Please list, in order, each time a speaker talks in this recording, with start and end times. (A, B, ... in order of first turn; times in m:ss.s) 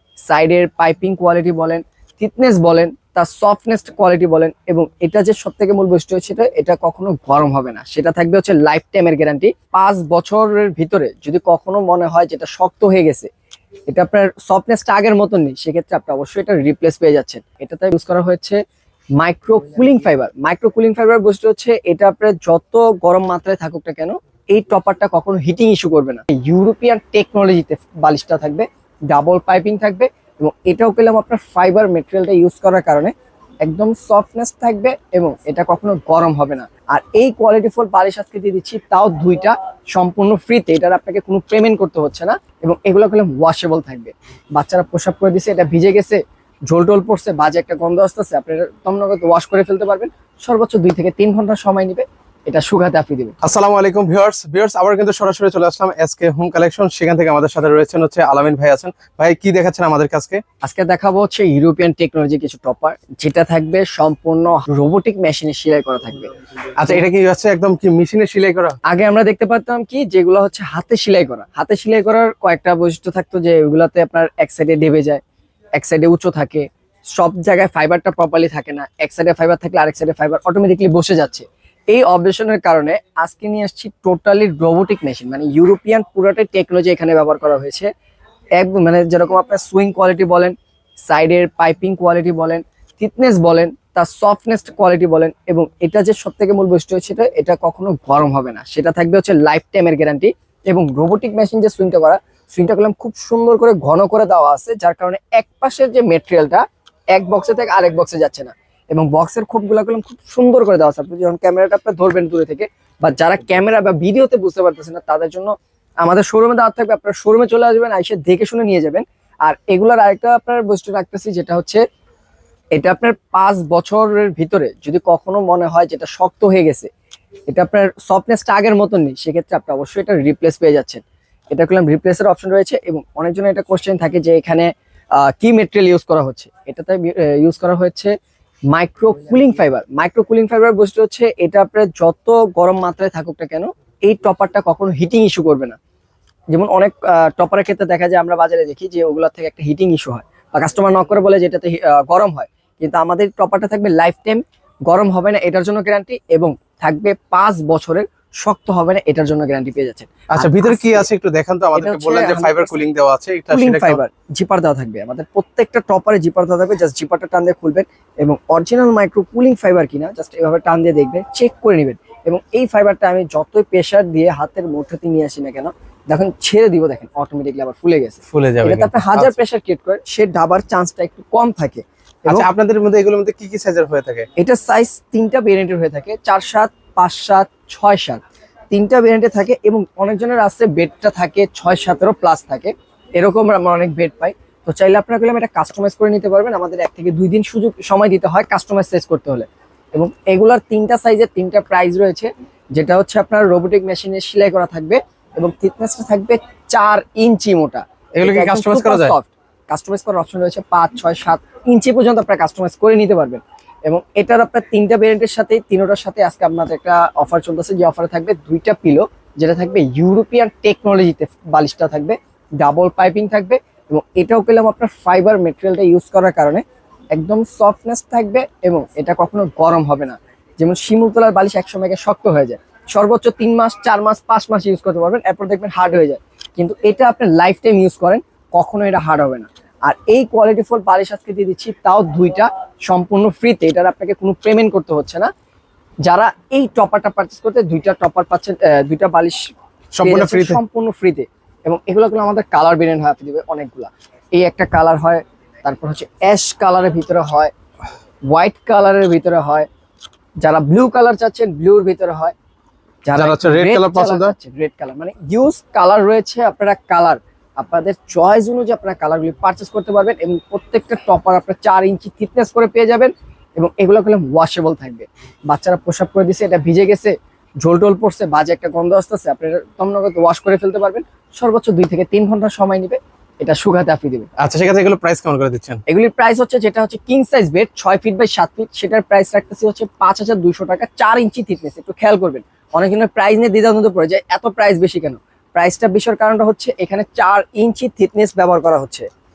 0:00.3-0:13.3 A
0:13.9-0:18.6 A
0:19.2-0:33.1 A
0:33.6-0:53.4 A
0:53.4-1:00.4 B
1:00.6-1:06.3 A
1:06.8-1:08.8 B
1:08.9-1:15.2 A
1:15.8-1:27.9 A
1:28.6-1:30.6 A
1:31.1-2:01.8 A
2:02.8-2:06.9 A
2:07.5-2:18.1 A
2:18.7-2:25.8 A
2:26.5-2:41.1 A
2:40.3-2:44.0 B
2:41.7-2:42.8 A
2:43.5-3:02.5 A
2:58.3-2:59.4 B
3:02.3-3:04.3 B
3:04.4-3:46.6 A
3:28.2-3:29.2 B
3:47.1-4:05.3 A
4:06.1-4:09.5 A
4:10.0-4:10.6 B
4:10.0-4:17.5 A
4:18.3-4:19.7 A
4:20.4-4:22.4 A
4:23.0-4:44.3 A
4:23.2-4:24.4 B
4:44.4-4:45.8 B
4:45.9-4:59.1 A